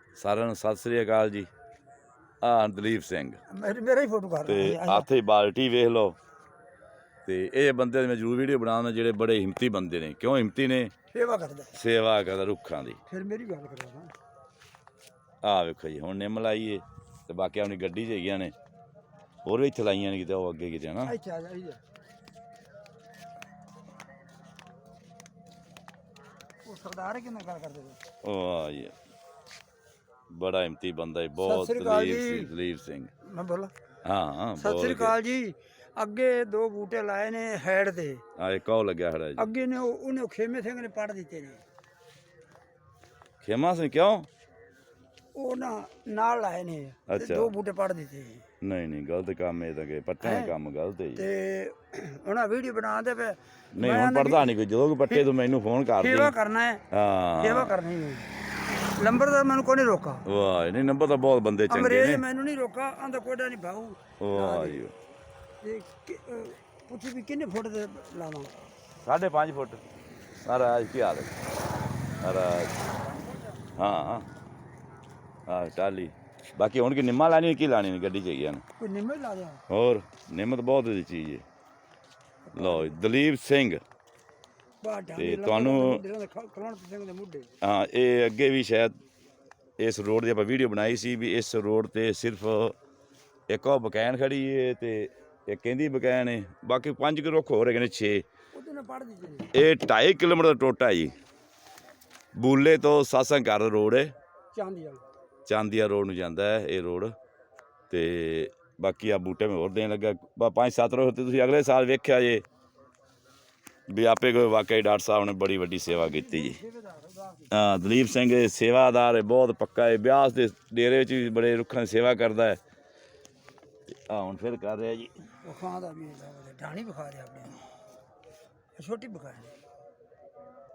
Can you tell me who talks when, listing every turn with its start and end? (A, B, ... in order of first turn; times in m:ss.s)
0:00.2-0:01.5 A
0:02.4-0:03.4 A
0:03.5-0:05.1 B
0:04.4-0:06.2 A
0:07.2-0:10.9 A
0:11.1-0:11.7 B
0:11.7-0:13.0 A
0:13.1-0:14.1 B
0:15.4-0:18.5 A
0:19.4-0:21.1 A
0:21.0-0:21.8 B
0:26.6-0:28.0 B
0:28.2-0:28.9 A
0:30.3-0:33.1 A
0:31.4-0:32.5 B
0:33.2-0:33.7 B
0:34.0-0:35.1 A
0:34.6-0:38.2 B
0:38.4-0:39.4 A
0:39.4-0:41.6 B
0:43.4-0:44.3 A
0:45.4-0:48.4 B
0:47.1-0:47.5 A
0:48.6-0:51.2 A
0:50.2-0:50.5 B
0:51.2-0:54.6 B
0:53.7-0:56.3 A
0:56.0-0:56.8 B
0:56.9-0:57.7 A
0:57.4-0:58.3 B
0:59.0-1:00.2 B
1:00.2-1:02.2 A
1:01.7-1:04.8 B
1:04.2-1:04.9 A
1:05.6-1:08.5 B
1:09.0-1:09.8 A
1:10.4-1:11.3 A
1:12.2-1:12.7 A
1:13.8-1:14.2 A
1:15.5-1:18.6 A
1:18.8-1:19.6 B
1:19.7-1:21.4 A
1:22.4-1:23.0 B
1:22.6-1:23.8 A
1:24.8-1:27.5 B
1:25.2-1:26.0 A
1:27.6-1:28.9 A
1:29.8-1:32.7 A
1:33.5-1:38.2 A
1:38.5-1:39.5 B
1:39.5-1:41.1 A
1:42.4-1:44.1 A
1:44.5-1:45.0 B
1:45.4-1:47.1 A
1:47.9-1:52.4 A
1:53.9-1:56.6 A
1:55.9-1:57.5 B
1:57.5-2:02.6 A
2:04.1-2:05.1 A
2:05.4-2:07.6 B
2:08.8-2:09.5 B